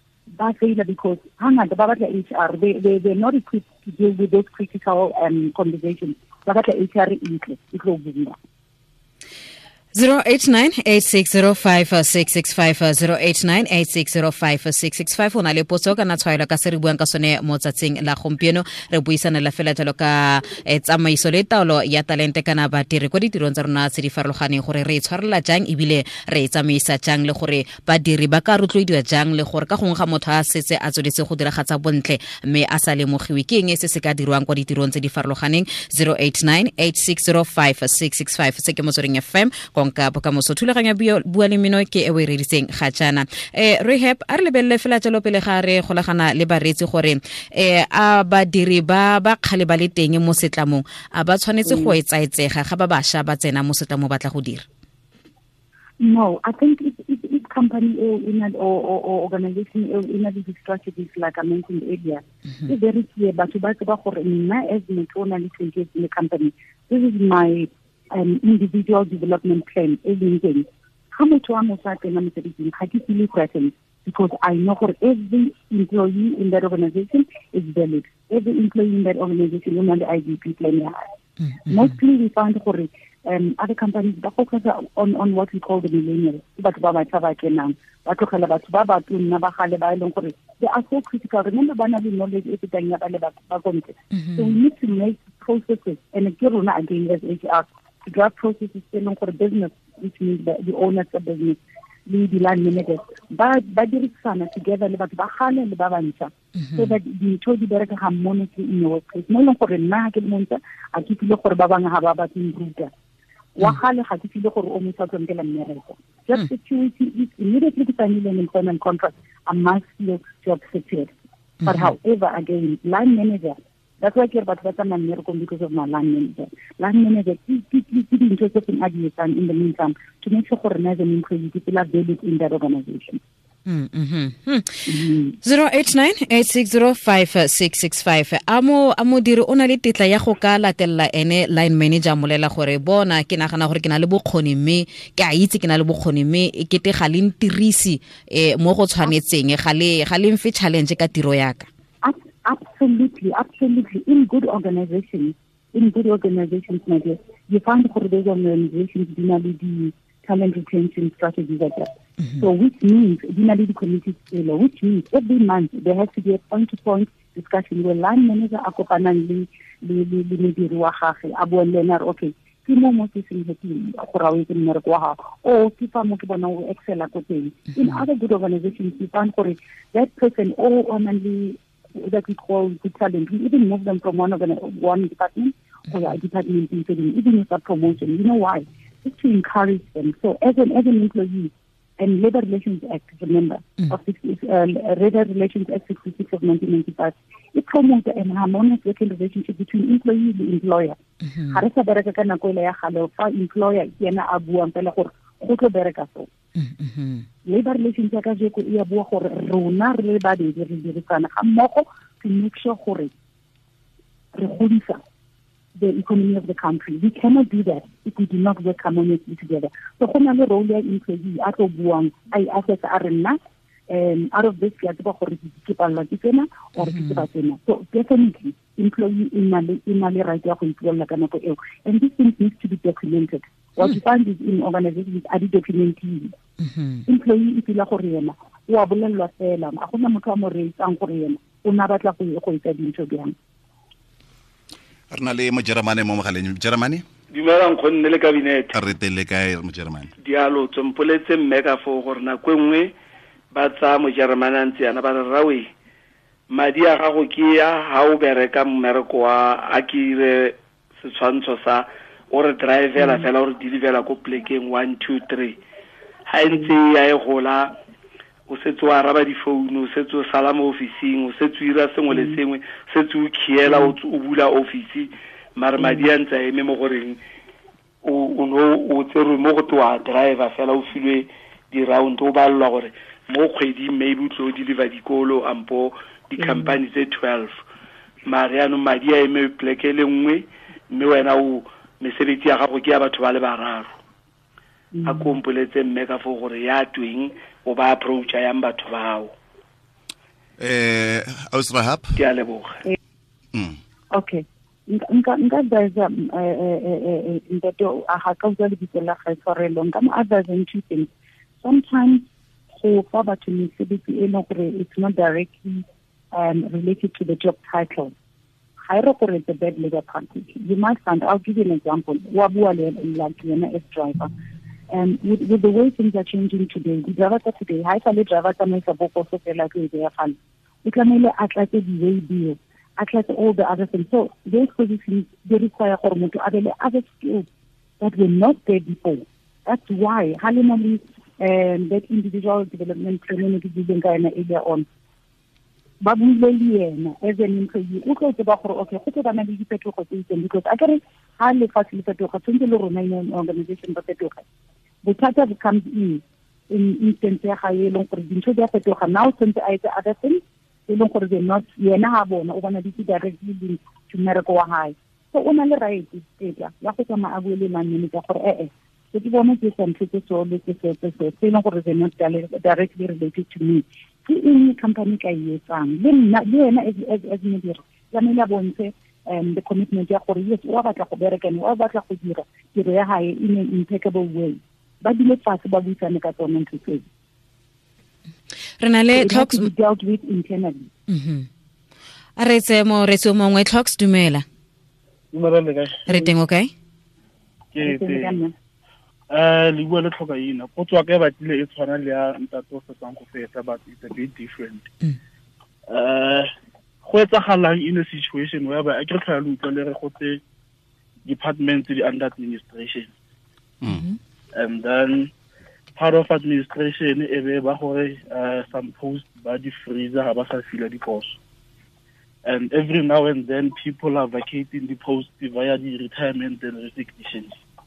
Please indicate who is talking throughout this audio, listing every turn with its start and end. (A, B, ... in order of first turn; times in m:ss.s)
0:00.3-0:08.4 A
0:09.9-0:54.6 B
0:51.6-0:52.0 A
0:56.0-1:21.0 A
1:21.7-1:52.9 A
1:34.1-1:34.6 B
1:46.6-1:46.9 B
1:53.6-2:01.1 A
2:01.6-2:13.2 A
2:01.6-2:01.9 B
2:13.6-2:14.8 B
2:14.9-2:15.4 A
2:15.4-2:31.7 B
2:32.0-2:41.9 A
2:42.4-3:21.0 A
3:21.5-3:26.3 A
3:26.6-3:27.2 B
3:27.4-3:33.1 A
3:34.3-3:35.0 A
3:35.8-3:43.4 A
3:43.9-3:56.3 A
3:46.8-3:47.2 B
3:56.6-3:57.0 B
3:57.1-4:03.3 A
4:05.1-4:07.0 C
4:07.3-4:08.7 D
4:08.7-4:10.1 C
4:10.2-4:12.9 D
4:13.5-4:15.7 D
4:16.5-4:25.6 D
4:26.3-4:27.7 D
4:28.5-4:37.2 D
4:32.1-4:32.4 A
4:33.7-4:33.9 A
4:35.8-4:36.1 A
4:38.0-4:47.5 D
4:46.4-4:46.8 A
4:48.2-4:53.9 D
4:54.9-4:55.4 A
4:55.0-4:59.3 D
5:00.6-5:02.1 C
5:02.2-5:02.7 D
5:04.1-5:11.1 A
5:11.6-5:18.1 A
5:18.8-5:24.3 A
5:24.9-5:37.4 A
5:38.0-5:44.8 A
5:46.0-5:54.4 A
5:55.0-6:27.0 A
6:28.8-6:29.7 B
6:29.1-6:30.9 A
6:31.1-6:31.5 B
6:32.4-6:34.4 B
6:35.3-6:36.2 E
6:36.1-6:36.7 B
6:37.7-6:38.4 E
6:37.8-6:38.5 A
6:39.3-6:44.9 E
6:45.9-6:46.5 E
6:47.0-6:50.4 E
6:51.2-6:53.1 E
6:53.9-6:54.2 B
6:54.5-6:55.3 E
6:56.0-7:01.4 E
7:02.4-7:07.6 E